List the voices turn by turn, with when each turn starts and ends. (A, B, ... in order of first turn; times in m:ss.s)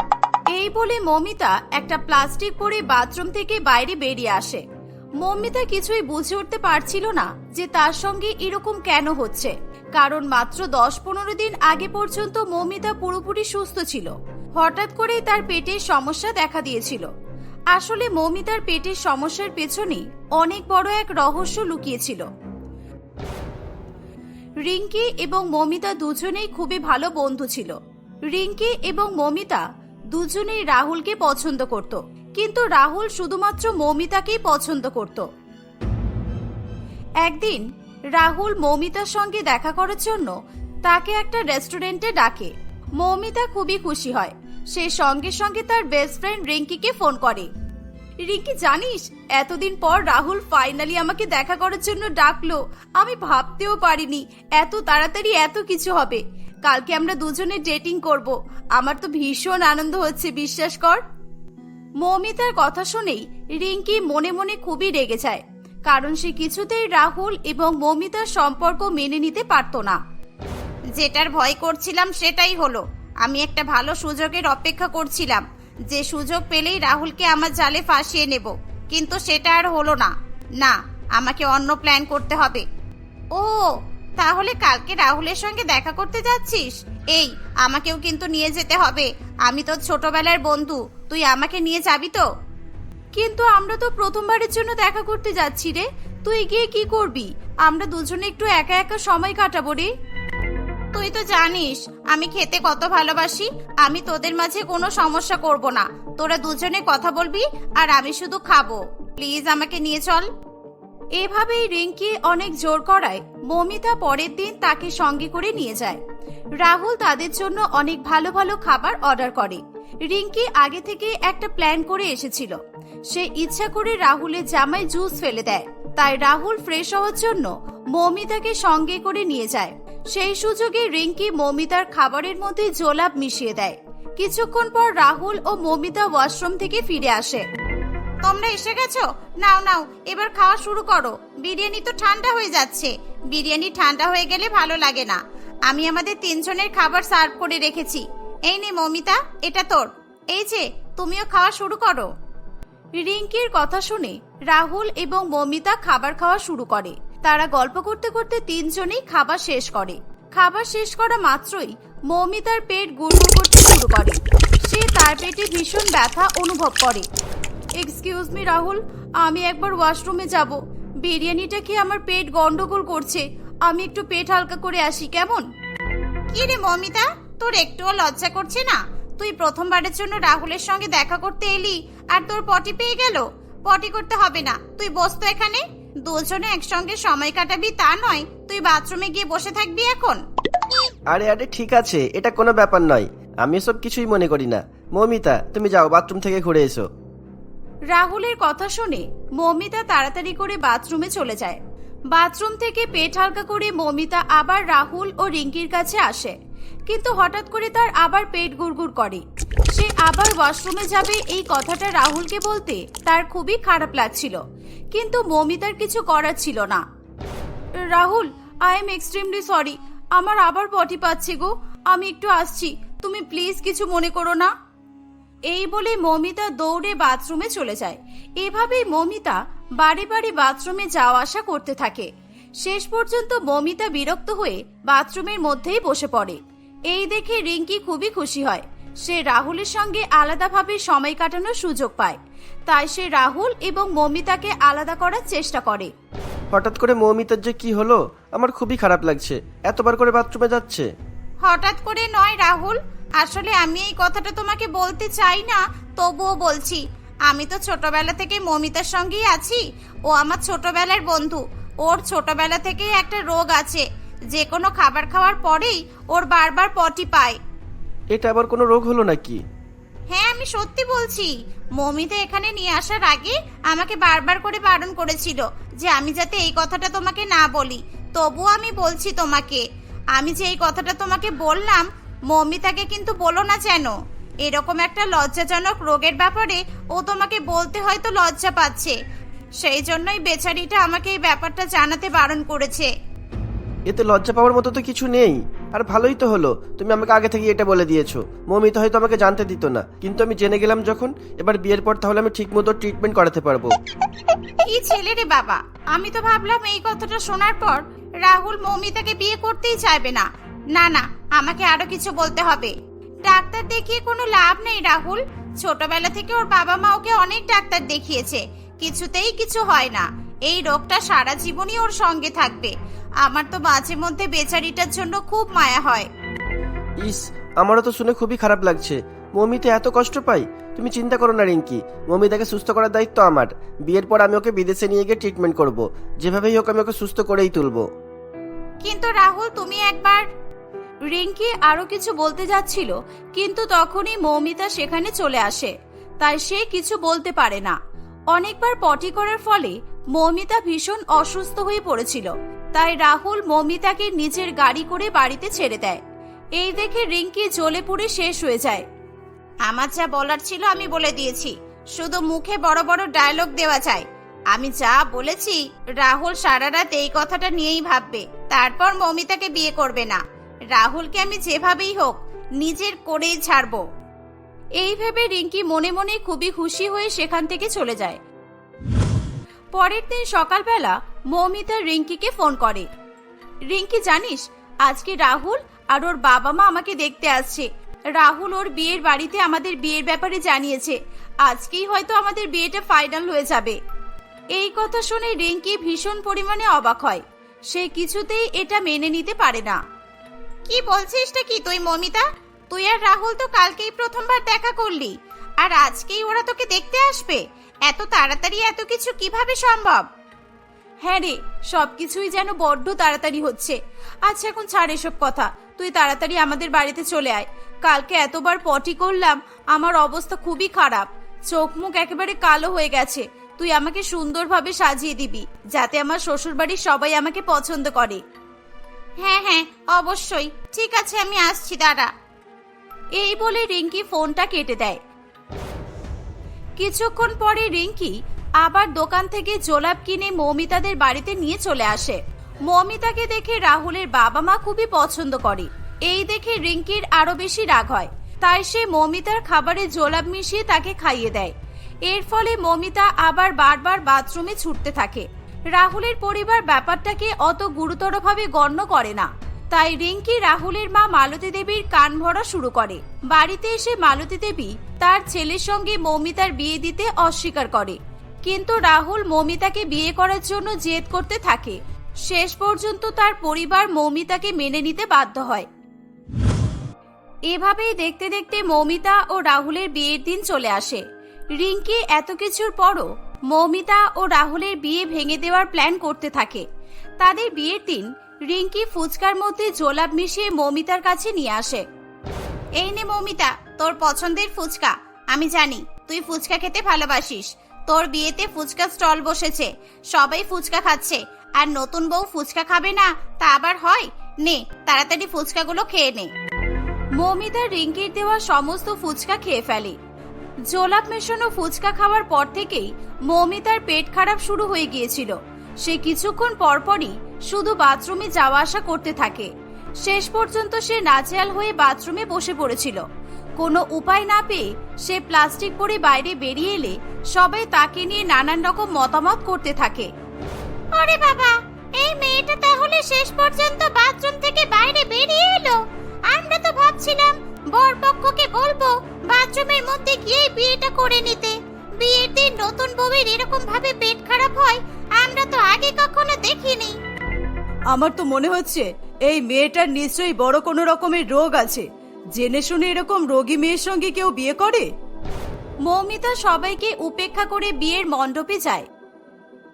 0:00.5-0:04.6 A
0:05.2-0:17.1 A
0:17.7-0:22.3 A
0:24.6-0:27.8 A
0:28.3-0:35.3 A
0:37.2-0:47.5 A
0:48.2-1:01.0 A
1:02.0-1:10.0 A
1:11.0-1:22.6 B
1:23.4-1:32.3 B
1:33.2-1:39.9 A
1:41.0-1:50.3 B
1:51.2-1:56.0 A
1:56.6-2:02.6 A
2:03.1-2:17.4 A
2:18.2-2:32.1 B
2:33.0-2:47.1 A
2:47.8-2:55.5 A
2:56.3-3:10.2 B
3:11.1-3:16.9 C
3:17.9-3:21.6 A
3:22.1-3:26.4 A
3:26.9-3:34.4 A
3:34.9-3:36.8 A
3:37.9-3:44.5 A
3:45.5-3:52.1 A
3:52.6-4:05.9 A
4:06.5-4:10.9 C
4:11.4-4:27.4 B
4:28.1-4:29.4 C
4:30.1-4:39.6 B
4:40.2-4:49.0 B
4:49.6-4:52.9 B
4:53.9-5:03.7 C
5:04.6-5:26.1 B
5:27.0-5:37.9 C
5:38.8-5:40.3 B
5:41.1-5:47.8 A
5:48.3-5:56.0 A
5:56.6-5:58.8 A
5:59.7-6:10.2 B
6:10.7-6:13.8 B
6:14.8-6:18.2 A
6:19.8-6:22.9 A
6:23.7-6:33.8 A
6:34.5-6:39.8 A
6:40.7-6:50.1 B
6:51.0-7:08.2 A
7:09.2-7:12.1 B
7:13.2-7:15.0 A
7:16.8-7:31.5 A
7:32.1-7:55.7 A
7:57.5-8:01.0 A
8:01.6-8:06.7 A
8:07.2-8:11.8 A
8:12.8-8:26.3 B
8:27.2-8:30.0 A
8:30.7-8:39.5 A
8:40.0-8:43.0 A
8:43.6-8:50.1 A
8:50.9-9:07.0 B
9:07.9-9:14.9 A
9:15.8-9:18.9 A